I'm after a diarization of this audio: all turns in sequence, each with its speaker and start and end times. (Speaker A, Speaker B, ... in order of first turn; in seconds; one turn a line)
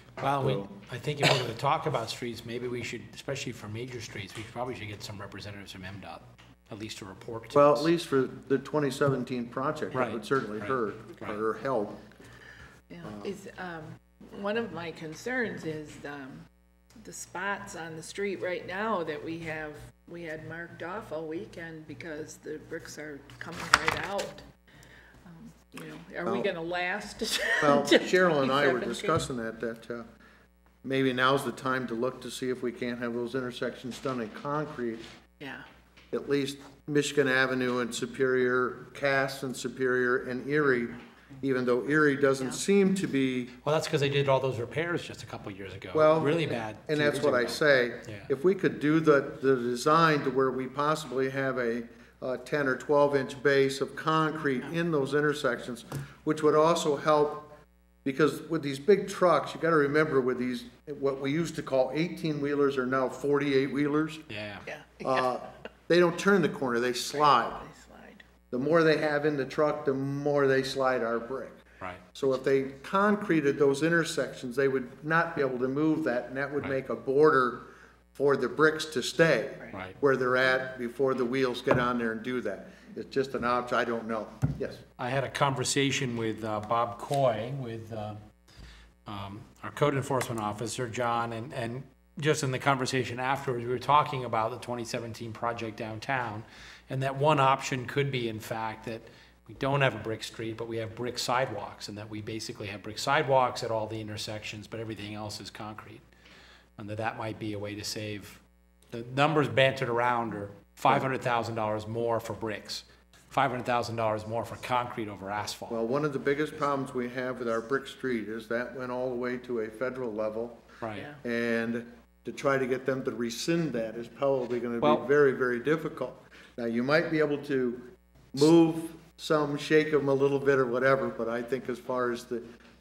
Speaker A: 0.2-7.9
Speaker B: 0.4-0.8
Speaker B: 7.5-12.0
Speaker A: 9.9-11.4
Speaker C: 12.9-16.5
Speaker B: 13.0-13.3
Speaker C: 17.0-24.4
Speaker C: 25.2-29.2
Speaker B: 27.6-30.1
Speaker B: 30.8-35.1
Speaker C: 35.4-35.7
Speaker B: 36.1-43.5
Speaker A: 43.6-48.3
Speaker B: 45.9-64.2
Speaker A: 64.3-64.6
Speaker C: 64.7-65.3
Speaker B: 65.0-67.6
Speaker C: 67.2-68.2
Speaker B: 68.5-71.6
Speaker B: 72.1-84.8
Speaker C: 79.6-79.9
Speaker A: 85.0-88.2
Speaker A: 89.0-106.0
Speaker A: 106.8-108.4
Speaker A: 108.9-115.8
Speaker B: 115.7-120.6
Speaker A: 120.8-121.1
Speaker B: 121.2-132.4
Speaker A: 124.8-125.0